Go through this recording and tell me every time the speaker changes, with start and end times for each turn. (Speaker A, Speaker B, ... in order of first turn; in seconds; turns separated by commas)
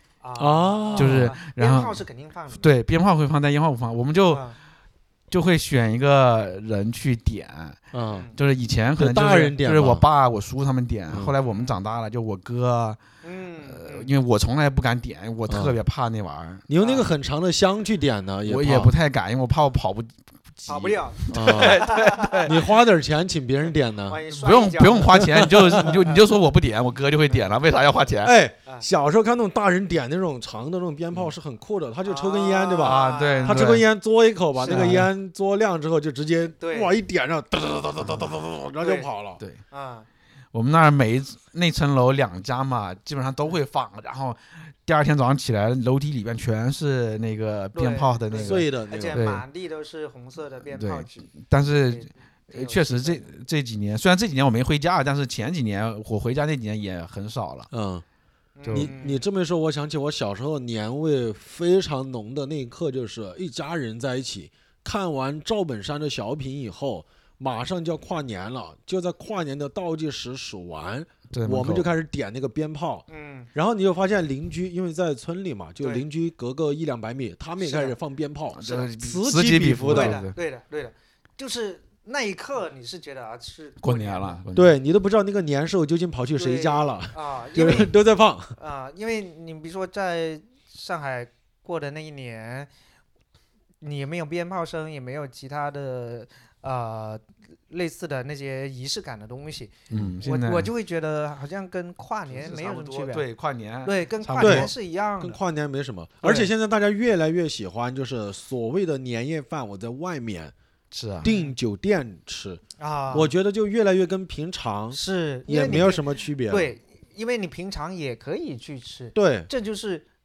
Speaker A: 0.2-2.7, Speaker B: 0.4-1.3, Speaker C: 1.0-2.0, Speaker C: 2.5-4.4, Speaker A: 4.3-4.6, Speaker C: 5.3-7.8, Speaker B: 7.9-8.3, Speaker C: 8.3-13.0, Speaker B: 9.0-10.1, Speaker B: 11.1-11.3, Speaker A: 11.4-11.8, Speaker A: 13.2-14.1, Speaker C: 13.7-16.7, Speaker B: 15.5-15.8, Speaker B: 16.7-18.9, Speaker A: 16.8-17.1, Speaker C: 18.5-22.6, Speaker A: 20.7-22.5, Speaker B: 21.3-21.9, Speaker B: 22.4-24.2, Speaker A: 24.1-25.9, Speaker C: 24.3-28.4, Speaker B: 25.2-26.0, Speaker B: 28.2-39.4, Speaker A: 32.0-33.8, Speaker C: 32.8-33.8, Speaker A: 34.6-35.1, Speaker C: 34.7-35.1, Speaker A: 36.6-36.9, Speaker A: 38.8-39.1, Speaker A: 39.7-40.1, Speaker C: 40.5-49.4, Speaker A: 47.7-51.3, Speaker B: 48.4-49.2, Speaker C: 50.7-57.7, Speaker A: 51.9-53.3, Speaker B: 57.7-58.0, Speaker A: 58.6-59.2, Speaker C: 58.7-58.9, Speaker B: 58.7-80.2, Speaker C: 71.3-71.9, Speaker A: 73.1-73.5, Speaker A: 77.6-78.0, Speaker C: 78.5-80.4, Speaker A: 79.9-84.4, Speaker C: 83.8-84.7, Speaker B: 84.5-88.5, Speaker A: 86.4-87.9, Speaker A: 88.6-92.7, Speaker A: 93.8-103.3, Speaker C: 99.9-100.7, Speaker C: 102.3-104.7, Speaker A: 103.8-105.4, Speaker B: 104.4-110.5, Speaker A: 106.2-106.5, Speaker C: 110.9-111.3, Speaker B: 111.2-112.6, Speaker A: 111.2-111.5, Speaker A: 112.8-113.3, Speaker B: 113.1-116.7, Speaker A: 114.9-120.0, Speaker B: 119.2-119.5